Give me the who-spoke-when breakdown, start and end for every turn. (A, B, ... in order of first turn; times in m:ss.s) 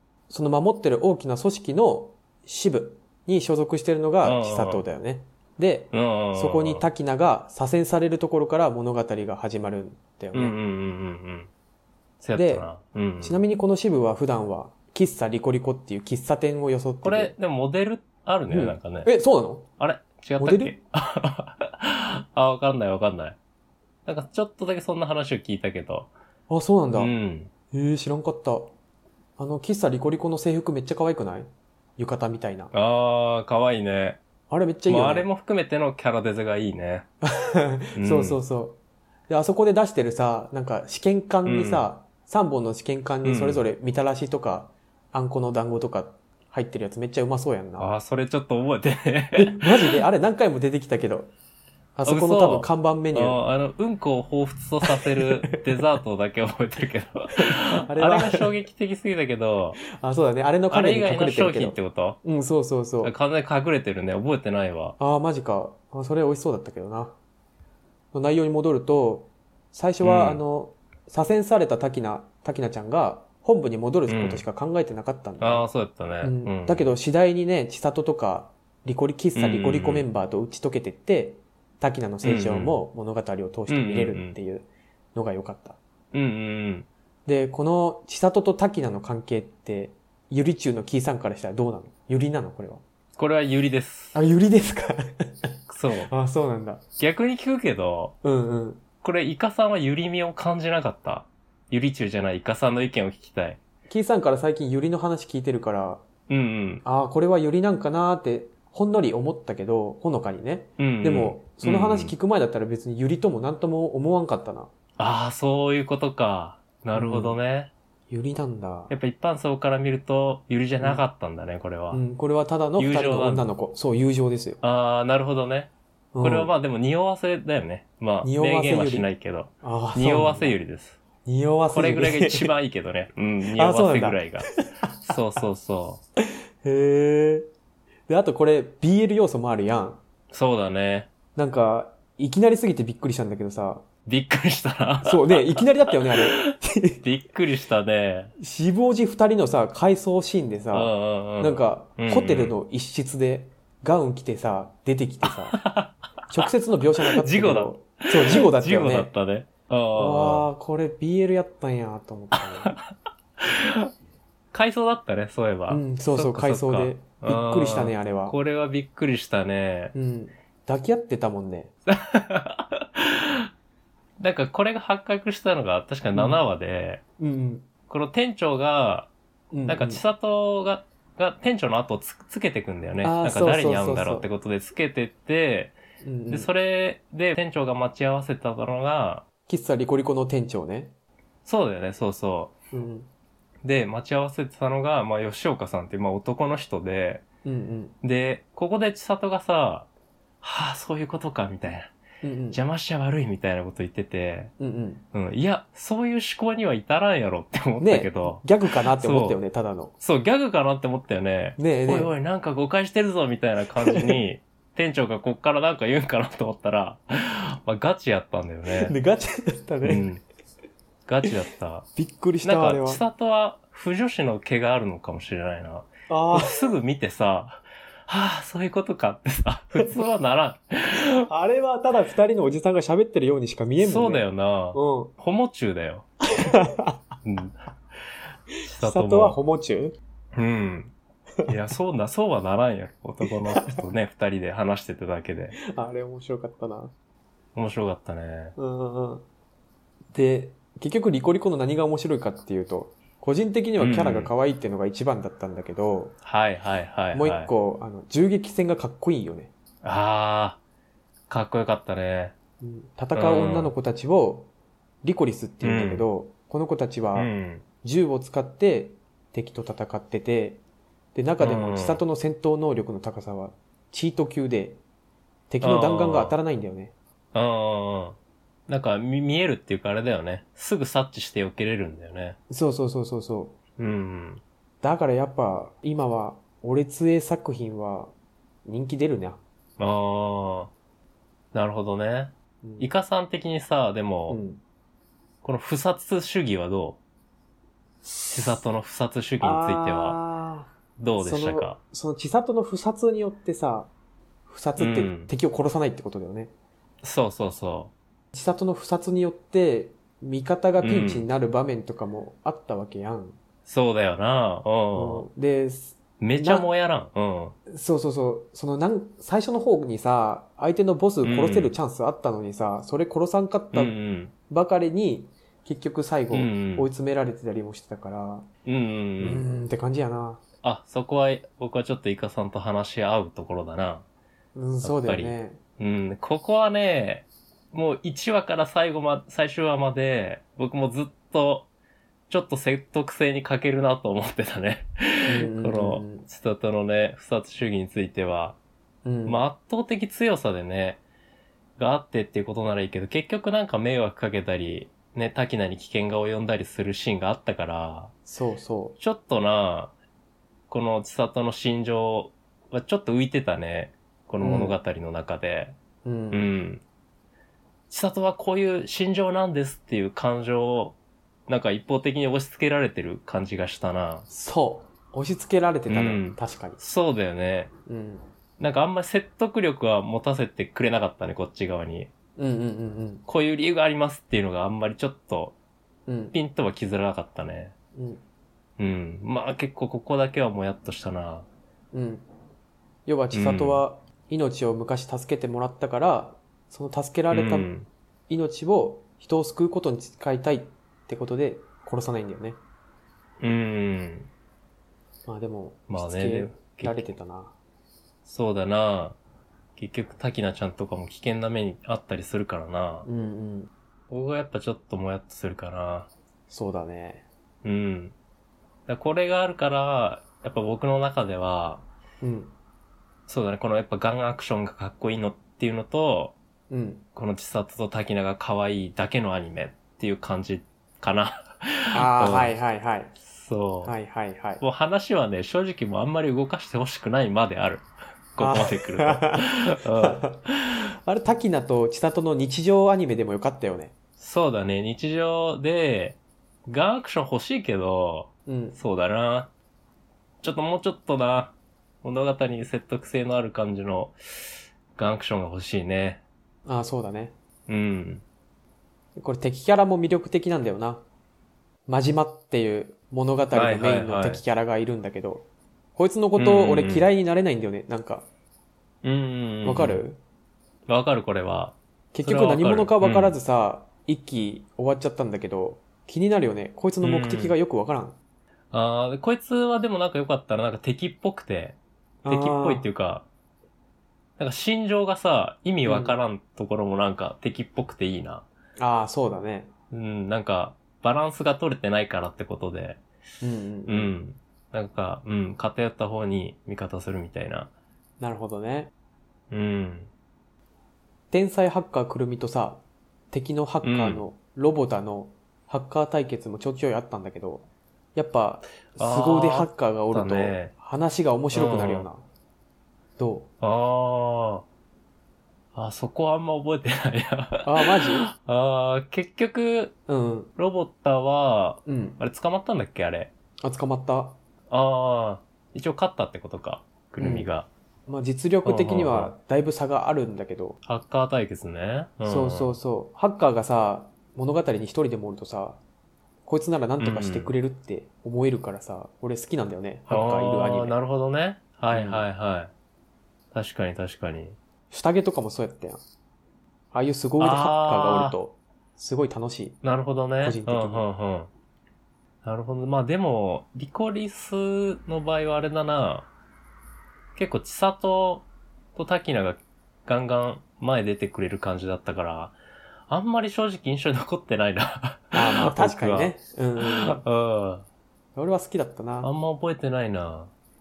0:00.3-0:10.6 A
0:04.2-0:04.8 B
0:05.9-0:06.8 B
0:10.3-0:11.5 B
0:12.2-0:13.4 B
0:12.4-0:12.7 A
0:13.2-0:17.3 A
0:17.0-0:19.1 B
0:18.5-0:19.7 A
0:19.8-0:23.4 B
0:20.4-0:20.7 A
0:24.0-0:26.1 B
0:26.5-0:27.1 A
0:26.9-0:27.5 B
0:27.7-0:28.7 A
0:29.4-0:32.7 A
0:32.7-0:34.2 B
0:34.5-0:35.3 A
0:34.9-0:37.1 B
0:37.2-0:47.9 A
0:38.0-0:38.4 B
0:41.4-0:41.8 B
0:43.2-0:43.6 B
0:47.8-0:50.0 B
0:49.4-0:51.3 A
0:52.0-0:53.4 A
0:52.0-0:59.8 B
0:54.8-0:55.2 A
0:57.4-0:58.5 A
0:59.9-1:03.1 A
1:00.7-1:02.2 B
1:03.0-1:05.0 B
1:05.0-1:07.1 A
1:08.1-1:15.7 A
1:10.0-1:10.4 B
1:14.1-1:14.4 B
1:15.4-1:16.9 B
1:16.2-1:25.8 A
1:19.3-1:20.1 B
1:22.2-1:22.8 B
1:23.7-1:24.4 B
1:26.1-1:26.9 B
1:27.2-1:32.8 A
1:33.1-1:34.2 B
1:34.1-1:35.5 A
1:35.7-1:36.1 B
1:36.1-1:36.8 A
1:37.0-1:38.2 B
1:38.2-1:38.8 A
1:39.0-1:43.6 B
1:43.9-1:46.0 A
1:46.3-1:46.8 B
1:46.8-1:54.7 A
1:50.8-1:52.1 B
1:55.0-1:57.7 B
1:56.9-1:57.4 A
1:58.1-1:58.9 A
1:58.9-2:02.0 B
2:01.9-2:04.6 A
2:02.8-2:03.5 B
2:04.6-2:11.0 B
2:06.1-2:06.5 A
2:08.2-2:09.1 A
2:09.6-2:10.6 A
2:11.2-2:12.5 A
2:11.7-2:14.5 B
2:13.5-2:15.1 A
2:15.0-2:16.0 B
2:16.6-2:17.5 A
2:18.1-2:20.0 A
2:20.3-2:21.1 B
2:21.3-2:23.8 A
2:24.0-2:28.3 B
2:25.0-2:27.0 A
2:28.4-2:35.6 A
2:30.7-2:32.6 B
2:35.5-2:35.9 B
2:36.3-2:39.1 A
2:37.0-2:40.5 B
2:39.9-2:42.7 A
2:42.4-2:43.9 B
2:44.5-2:49.9 B
2:45.7-2:48.4 A
2:49.9-2:51.7 A
2:51.9-2:53.5 B
2:54.2-2:57.0 B
2:56.1-2:56.4 A
2:57.2-2:57.7 A
2:57.9-2:59.1 B
2:59.5-3:00.0 A
2:59.7-3:05.8 B
3:03.0-3:04.3 A
3:06.0-3:06.5 A
3:06.3-3:09.2 B
3:09.5-3:10.9 A
3:11.4-3:12.5 B
3:12.7-3:13.1 A
3:13.6-3:17.2 B
3:17.4-3:17.9 A
3:18.0-3:19.9 B
3:20.4-3:21.9 B
3:22.2-3:22.6 A
3:22.5-3:24.5 B
3:24.6-3:25.0 A
3:25.1-3:29.4 B
3:27.8-3:29.9 A
3:30.0-3:38.9 B
3:31.6-3:32.1 A
3:33.8-3:34.2 A
3:38.7-3:40.0 A
3:39.8-3:40.2 B
3:41.0-3:41.9 B
3:42.0-3:43.0 A
3:42.4-3:51.3 B
3:46.1-3:46.5 A
3:51.2-3:55.1 A
3:53.8-3:56.1 B
3:56.4-3:57.0 A
3:57.2-3:57.6 B
3:58.6-3:59.4 B
3:58.8-4:00.0 A
4:00.3-4:00.9 B
4:01.4-4:05.6 B
4:03.5-4:03.8 A
4:05.6-4:06.9 A
4:07.5-4:08.5 B
4:08.6-4:09.2 A
4:10.1-4:16.2 A
4:13.8-4:14.3 B
4:16.2-4:17.5 B
4:17.1-4:19.5 A
4:19.8-4:20.6 B
4:21.3-4:22.3 B
4:22.6-4:24.5 A
4:23.1-4:23.7 B
4:25.0-4:27.3 A
4:25.6-4:26.0 B
4:27.1-4:27.6 B
4:27.8-4:30.6 A
4:31.1-4:34.8 A
4:31.4-4:32.0 B
4:35.5-4:36.9 A
4:35.6-4:36.4 B
4:37.3-4:38.2 B
4:38.7-4:42.4 B
4:42.5-4:43.5 A
4:43.8-4:44.4 B
4:44.8-4:48.1 A
4:48.6-4:49.4 A
4:49.8-4:50.7 B
4:51.5-4:54.4 B
4:52.6-4:52.9 A
4:54.3-4:54.6 A
4:55.4-4:57.0 B
4:58.0-4:58.5 A
4:58.3-5:00.2 B
4:59.4-5:03.9 A
5:01.0-5:01.8 B
5:04.5-5:06.5 A
5:04.8-5:05.3 B
5:07.0-5:07.9 B
5:08.3-5:13.4 A
5:10.8-5:11.3 B
5:13.6-5:15.3 B
5:14.9-5:16.7 A
5:16.2-5:17.5 B
5:17.7-5:23.9 A
5:21.2-5:21.7 B
5:23.7-5:24.3 B
5:24.5-5:28.5 A
5:26.3-5:26.9 B
5:28.6-5:29.4 B
5:29.2-5:30.4 A
5:30.6-5:34.0 B
5:34.5-5:35.6 A
5:34.8-5:41.7 B
5:42.3-5:48.6 B
5:45.2-5:46.3 A
5:49.0-5:49.4 A
5:49.2-5:51.0 B
5:51.8-5:58.1 B
5:58.2-5:59.0 A
5:59.0-5:59.9 B
6:00.7-6:05.7 B
6:04.4-6:04.8 A
6:06.0-6:06.5 A
6:06.3-6:06.8 B
6:07.9-6:11.0 B
6:11.5-6:14.2 B
6:14.3-6:16.8 A
6:15.9-6:17.7 B
6:17.9-6:18.2 A
6:18.6-6:22.1 B
6:22.4-6:23.2 A
6:23.2-6:25.5 B
6:26.1-6:26.3 A
6:26.3-6:27.7 B
6:27.9-6:28.2 A
6:28.8-6:31.4 B
6:31.9-6:32.2 A
6:33.0-6:37.7 A
6:33.3-6:33.8 B
6:37.3-6:37.9 B
6:38.3-6:42.6 A
6:43.4-6:44.3 B
6:45.2-6:47.5 A
6:45.9-6:47.1 B
6:48.2-6:49.2 B
6:49.8-6:53.1 B
6:53.0-6:53.7 A
6:54.1-6:56.1 B
6:56.5-6:57.2 A
6:57.6-6:58.1 B
6:58.9-7:01.8 B
7:02.2-7:02.5 A
7:03.3-7:06.3 B
7:06.7-7:07.0 A
7:07.1-7:12.5 B
7:11.9-7:13.1 A
7:13.2-7:13.9 B
7:13.8-7:14.6 A
7:14.6-7:20.3 B
7:18.4-7:20.4 A
7:21.0-7:23.9 A
7:24.2-7:29.5 B
7:28.5-7:28.8 A
7:30.4-7:34.2 B
7:35.0-7:36.2 B
7:36.6-7:37.3 A
7:37.7-7:38.2 B
7:39.2-7:41.0 A
7:41.9-7:48.3 A
7:43.5-7:44.4 B
7:46.4-7:47.1 B
7:49.0-7:50.0 B
7:49.6-7:50.2 A
7:50.9-7:53.4 B
7:52.1-7:58.2 A
7:57.0-7:57.6 B
7:58.7-8:01.8 B
8:02.2-8:02.9 A
8:02.3-8:03.2 B
8:04.4-8:08.4 B
8:05.8-8:06.2 A
8:08.8-8:09.7 A
8:09.9-8:13.0 B
8:13.4-8:14.1 A
8:13.9-8:17.7 B
8:18.2-8:18.9 A
8:19.5-8:20.1 B
8:21.3-8:32.2 A
8:23.8-8:24.2 B
8:28.9-8:30.7 B
8:31.5-8:32.1 B
8:33.2-8:33.5 A
8:33.6-8:34.6 B
8:35.7-8:40.0 B
8:37.6-8:38.3 A
8:40.1-8:40.5 A
8:40.6-8:43.3 B
8:41.8-8:42.2 A
8:43.6-8:44.4 A
8:44.7-8:47.7 B
8:47.2-8:47.5 A
8:48.1-8:50.8 A
8:48.6-8:49.3 B
8:50.8-8:52.8 B
8:52.2-8:55.8 A
8:56.4-9:00.9 A
8:57.0-8:57.5 B
9:00.1-9:02.7 B
9:01.9-9:02.2 A
9:03.5-9:04.6 B
9:04.9-9:06.0 A
9:06.9-9:09.8 A
9:07.4-9:08.4 B
9:09.8-9:11.5 B
9:10.4-9:11.1 A
9:12.4-9:16.3 B
9:17.4-9:22.6 B
9:23.1-9:27.8 B
9:25.3-9:27.2 A
9:28.4-9:29.3 A
9:29.2-9:30.5 B